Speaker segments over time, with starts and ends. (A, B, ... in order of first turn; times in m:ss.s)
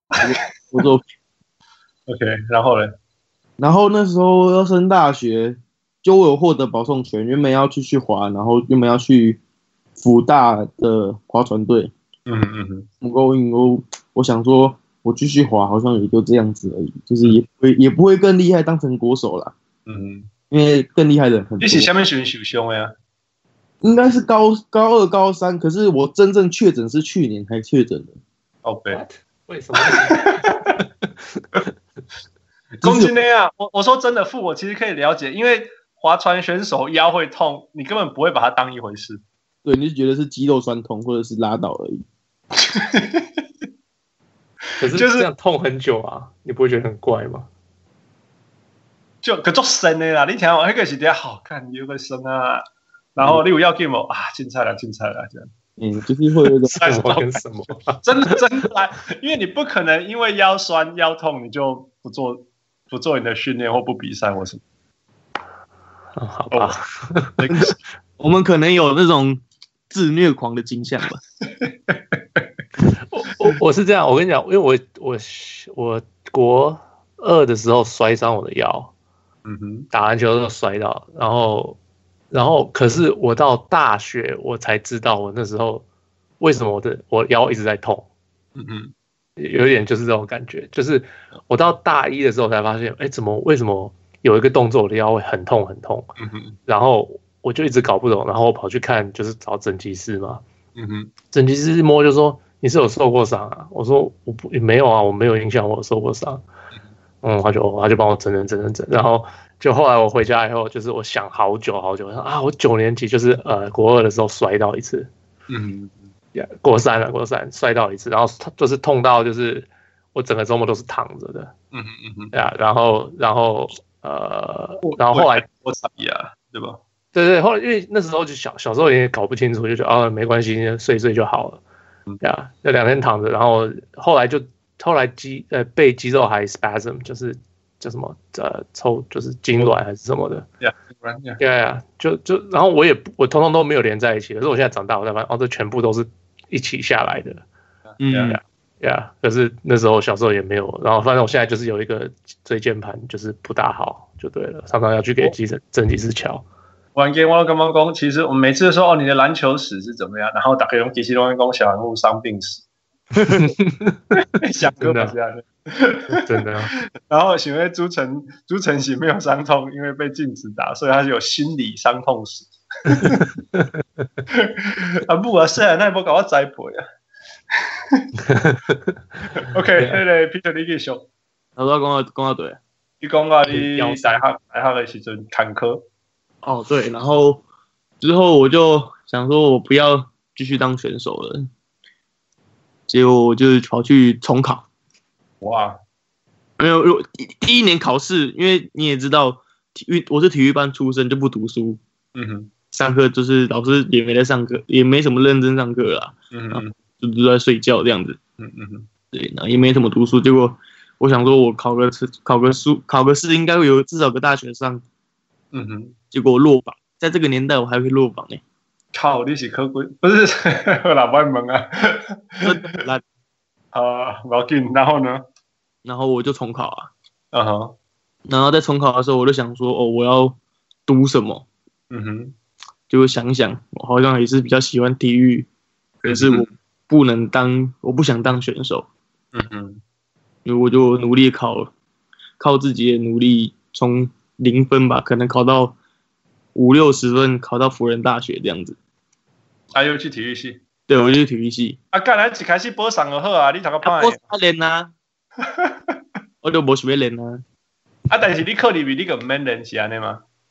0:00.2-0:01.0 A
0:02.1-0:02.9 B
0:03.6-0:09.4 A
0:10.0-0:11.9 A
0:12.3-0:12.9 B
0:13.0-0:19.5 A
0:19.9-0:20.3 B
0:20.5-0:21.9 A
0:21.6-0:22.9 B
0:23.8-0:28.1 A
0:28.6-0:29.0 B
0:28.9-0:31.7 C
0:29.8-0:30.6 B
0:32.8-0:39.2 B
0:32.8-0:33.1 A
0:39.6-0:42.0 A
0:42.6-0:43.3 B
0:44.8-0:47.5 C
0:44.9-0:45.3 B
0:49.2-0:52.6 B
0:53.2-0:55.5 B
0:55.8-0:56.8 A
0:56.7-0:57.4 B
0:56.7-0:58.4 C
0:58.0-1:04.6 B
1:06.2-1:07.4 C
1:07.4-1:07.7 B
1:07.5-1:11.2 A
1:11.6-1:12.4 B
1:13.1-1:18.9 C
1:19.4-1:19.9 B
1:19.9-1:21.8 C
1:22.3-1:25.8 C
1:26.4-1:28.1 C
1:28.6-1:28.9 B
1:29.4-1:36.1 C
1:36.2-1:36.6 B
1:36.7-1:40.4 C
1:40.8-1:41.1 B
1:41.3-1:46.4 C
1:47.2-1:55.1 C
1:55.5-1:56.0 B
1:56.4-2:01.5 C
2:01.7-2:02.3 B
2:02.3-2:05.4 C
2:04.8-2:06.8 B
2:07.1-2:11.6 C
2:12.2-2:20.5 C
2:20.6-2:21.4 B
2:21.4-2:27.4 C
2:28.0-2:28.4 A
2:28.0-2:28.4 B
2:28.3-2:36.4 C
2:37.0-2:42.6 B
2:43.3-2:44.2 C
2:44.4-2:46.2 B
2:44.7-2:45.2 C
2:46.1-2:46.7 C
2:47.1-2:53.2 B
2:52.9-2:53.7 C
2:54.3-2:56.8 B
2:58.3-2:58.8 C
2:59.4-3:01.1 B
3:01.6-3:02.6 A
3:03.0-3:05.8 B
3:03.5-3:04.2 C
3:06.4-3:07.4 A
3:08.0-3:11.5 A
3:12.9-3:14.7 A
3:15.4-3:15.8 B
3:16.6-3:21.8 A
3:22.2-3:22.5 B
3:22.7-3:28.2 A
3:26.3-3:26.7 B
3:28.4-3:28.9 B
3:29.1-3:34.8 A
3:35.5-3:36.0 B
3:36.1-3:38.4 A
3:38.9-3:42.5 B
3:42.4-3:43.0 A
3:43.7-3:45.2 B
3:45.8-3:46.9 A
3:47.3-3:47.8 B
3:48.3-3:51.5 A
3:51.9-3:52.4 B
3:52.9-3:55.5 A
3:56.0-3:58.9 A
3:56.1-3:56.5 B
3:59.3-3:59.8 B
4:00.4-4:01.7 A
4:02.4-4:05.8 A
4:06.6-4:08.8 A
4:09.7-4:10.6 B
4:10.9-4:11.8 A
4:11.9-4:14.2 B
4:13.8-4:14.9 A
4:15.4-4:15.7 B
4:16.4-4:17.4 A
4:18.1-4:20.2 B